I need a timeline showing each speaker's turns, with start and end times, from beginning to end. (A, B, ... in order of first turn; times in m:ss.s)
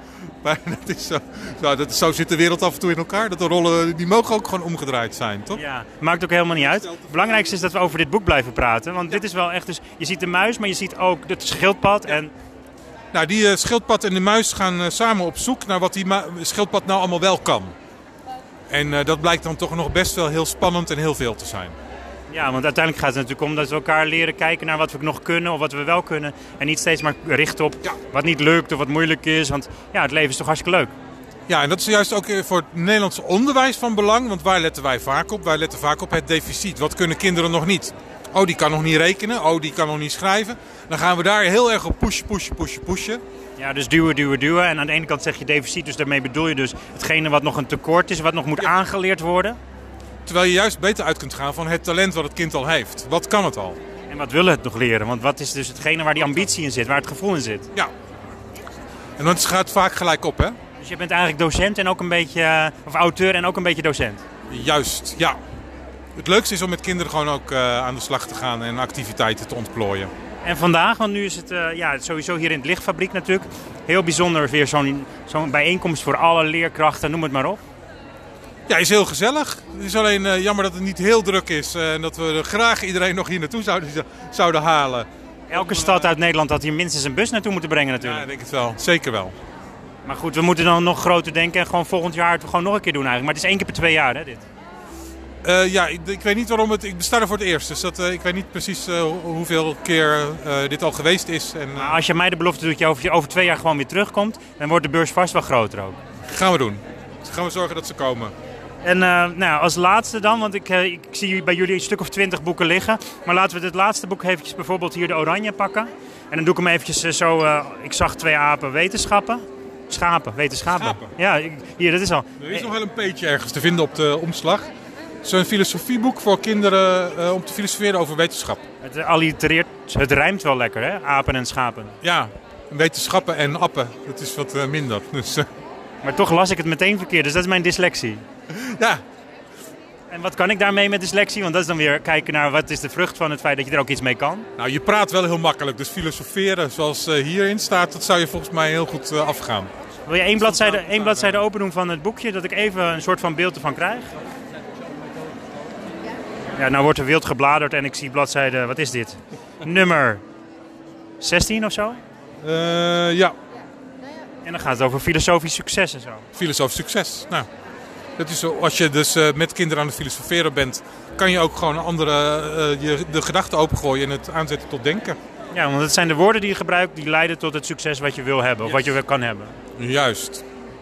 0:00.4-0:05.6 A
0:05.5-0:12.3 B
0:06.8-0:07.4 A
0:13.1-0:17.7 A
0:18.7-0:21.7 A
0:22.3-0:30.9 B
0:31.5-0:43.2 A
0:43.6-0:49.6 B
0:50.2-0:53.8 A
0:54.1-0:57.7 B
0:59.2-1:00.6 A
1:00.8-1:04.2 B
1:04.5-1:05.4 A
1:06.2-1:10.1 A
1:10.4-1:17.6 B
1:18.7-1:26.1 A
1:25.5-1:28.2 B
1:28.0-1:29.3 A
1:30.0-1:34.4 B
1:35.4-1:42.0 A
1:41.8-1:46.0 B
1:46.2-1:48.3 A
1:48.8-2:02.7 B
2:00.7-2:01.1 A
2:02.4-2:04.7 A
2:05.2-2:08.6 A
2:08.8-2:12.0 B
2:12.0-2:15.5 A
2:16.0-2:18.2 B
2:18.5-2:19.0 A
2:20.1-2:24.4 B
2:24.6-2:29.7 A
2:30.0-2:34.1 B
2:30.4-2:31.4 A
2:36.6-2:40.2 B
2:41.2-2:42.0 B
2:42.4-2:43.3 A
2:44.4-2:46.3 B
2:46.3-2:47.5 A
2:48.2-2:55.2 A
2:55.5-2:59.5 B
2:59.8-3:00.4 A